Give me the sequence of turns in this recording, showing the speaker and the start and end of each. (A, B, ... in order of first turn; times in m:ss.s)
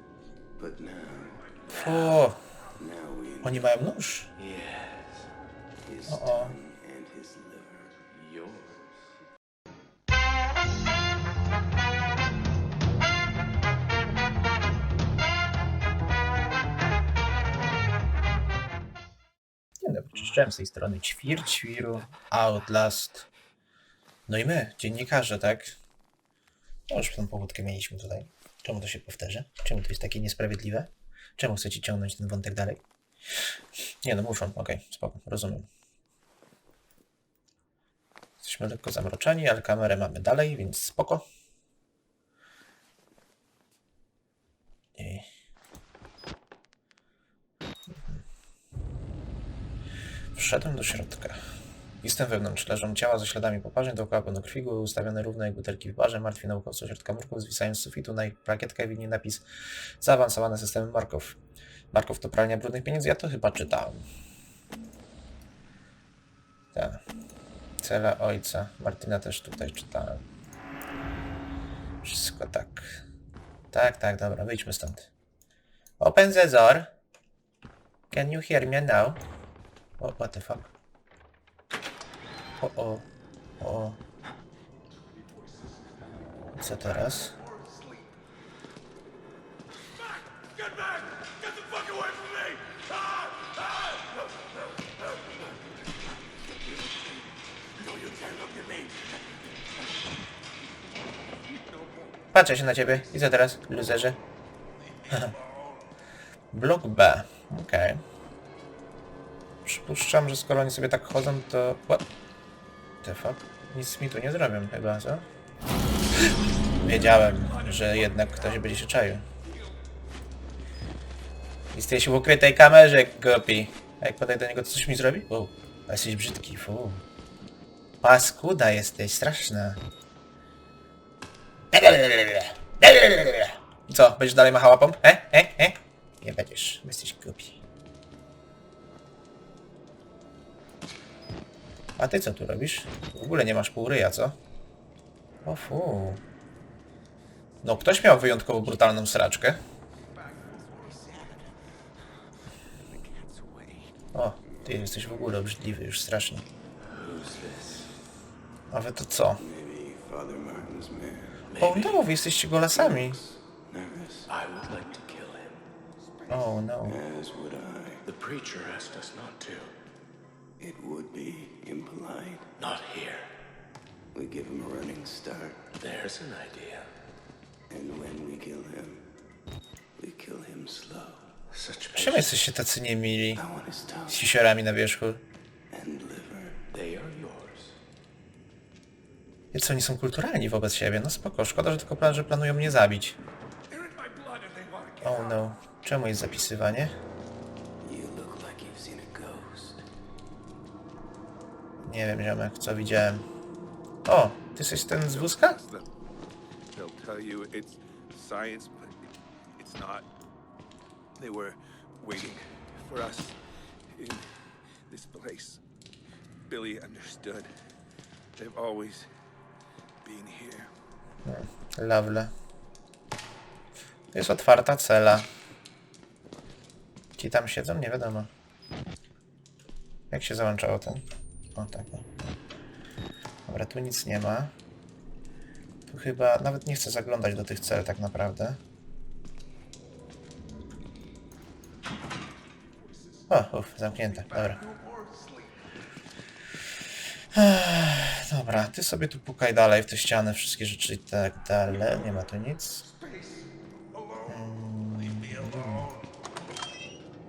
0:00.6-0:01.5 A
0:01.7-0:02.4 B
0:01.7-0:02.2 C
0:02.8-0:03.7 A
0:03.4-0:04.3 B
0:04.4-0:05.3 C
0:05.8-0:08.0 A
0:06.1-0:06.5 B
0:08.1-0:09.0 C
0:19.8-0:23.3 B
0:24.3-0:25.8 B
0:26.9-0:32.8 B
0:34.0-0:35.7 B
0:38.4-0:41.2 B
0:45.0-0:45.3 B
0:50.3-0:51.4 B
0:52.0-0:59.4 B
1:00.0-1:01.4 B
1:01.9-1:04.0 B
1:06.7-1:07.0 B
1:07.8-1:10.2 B
1:12.0-1:13.0 B
1:13.7-1:15.1 B
1:16.0-1:16.9 B
1:18.1-1:19.2 B
1:20.0-1:20.7 B
1:22.6-1:23.0 B
1:23.6-1:24.0 B
1:26.6-1:27.3 B
1:27.4-1:28.0 D
1:31.6-1:32.8 D
1:42.3-1:44.2 B
1:46.5-1:48.0 B
1:49.6-1:52.0 B
1:53.0-1:55.3 B
1:56.8-1:59.2 B
2:01.7-2:07.0 B
2:08.0-2:09.8 B
2:11.7-2:17.6 B
2:22.0-2:24.4 B
2:25.4-2:26.2 B
2:27.6-2:29.6 B
2:30.3-2:31.3 D
2:33.2-2:33.6 A
2:34.1-2:36.4 B
2:36.9-2:37.9 C
2:38.7-2:39.4 B
2:39.4-2:41.4 A
2:41.5-2:42.0 C
2:41.6-2:43.2 B
2:42.7-2:44.3 A
2:44.3-2:45.7 C
2:46.3-2:47.0 B
2:46.8-2:48.0 A
2:48.0-2:49.7 C
2:50.6-2:52.5 A
2:52.6-2:53.3 C
2:54.1-2:55.7 A
2:55.8-2:56.9 C
2:57.7-2:59.0 A
3:00.0-3:01.3 A
3:01.5-3:02.3 C
3:01.9-3:03.4 B
3:03.4-3:04.2 A
3:04.1-3:05.2 B
3:05.7-3:06.7 A
3:06.7-3:07.7 C
3:09.5-3:13.2 B
3:13.7-3:15.2 D
3:15.0-3:16.9 B
3:17.8-3:19.8 A
3:21.8-3:23.2 B
3:24.0-3:25.6 B
3:25.0-3:25.9 D
3:26.7-3:30.1 D
3:31.2-3:33.4 D
3:33.9-3:34.3 D
3:34.9-3:35.6 D
3:36.5-3:37.5 D
3:38.4-3:39.1 D
3:40.0-3:40.7 D
3:41.2-3:42.3 B
3:44.1-3:45.3 B
3:47.2-3:48.3 B
3:50.1-3:51.0 B
3:51.5-3:52.4 B
3:53.5-3:54.5 B
3:55.9-3:58.6 B
4:03.3-4:04.6 B
4:03.9-4:05.6 D
4:07.3-4:12.8 B
4:12.9-4:13.5 D
4:14.2-4:15.9 B